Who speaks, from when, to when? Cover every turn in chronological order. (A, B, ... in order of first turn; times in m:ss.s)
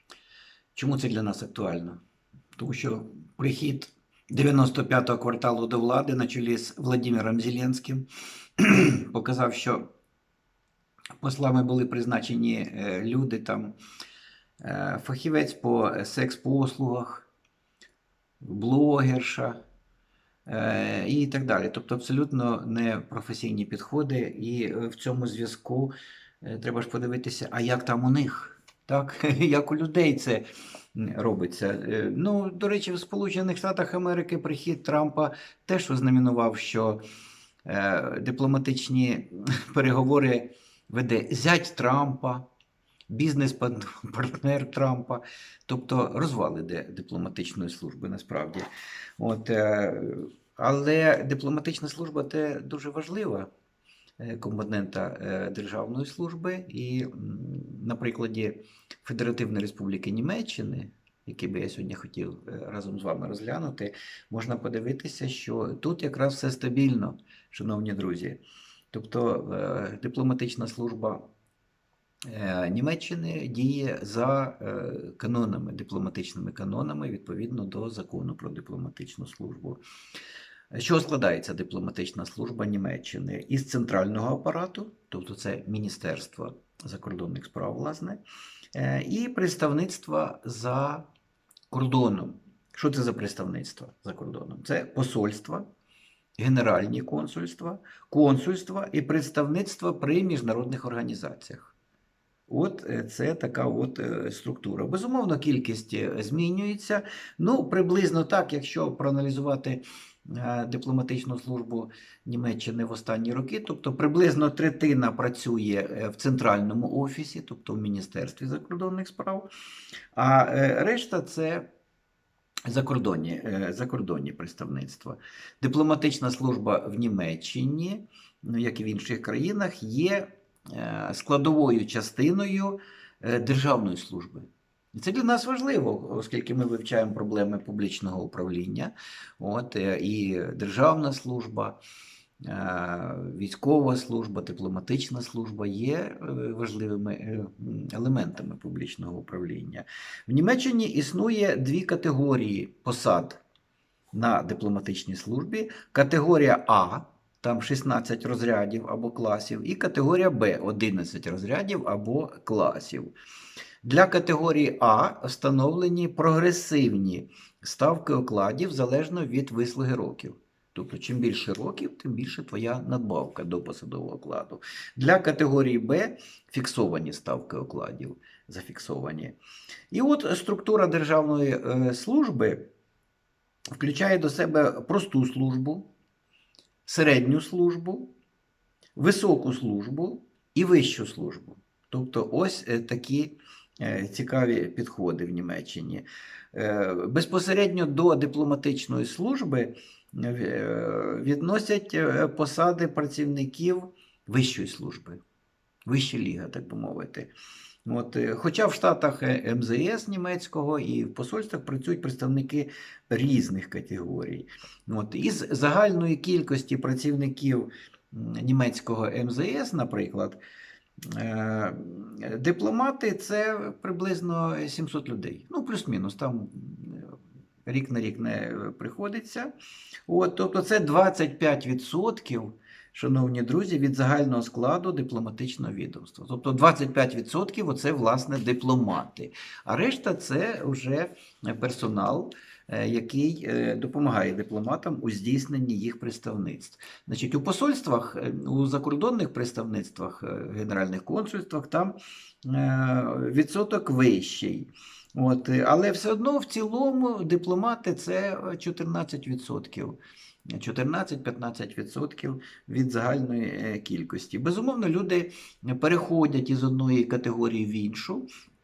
0:00.8-0:02.0 A
0:02.6-0:08.0 A
0:08.6-0:09.9 A
0:11.2-0:13.7 A
0:14.6-0:17.3 A
0:18.4-0:19.6 A
0:20.5-0:30.4 A
0:31.0-0:37.0 A
0:37.7-0:42.4 A
0:43.1-0:48.7 A
0:49.2-0:53.5 A
0:54.2-1:08.4 A
1:08.9-1:11.3 A
1:12.3-1:19.8 A
1:20.7-1:28.2 A
1:28.7-1:31.1 A
1:31.7-1:35.6 A
1:36.4-1:41.7 A
1:42.5-1:59.5 A
2:00.2-2:01.7 A
2:02.7-2:21.8 A
2:22.4-2:33.4 A
2:34.1-2:43.1 A
2:43.8-2:59.4 A
2:59.9-3:02.7 A
3:03.8-3:05.8 A
3:06.9-3:08.1 A
3:09.0-3:25.2 A
3:25.9-3:27.3 A
3:27.9-3:40.4 A
3:41.0-3:47.2 A
3:47.7-3:49.5 A
3:50.1-4:28.3 A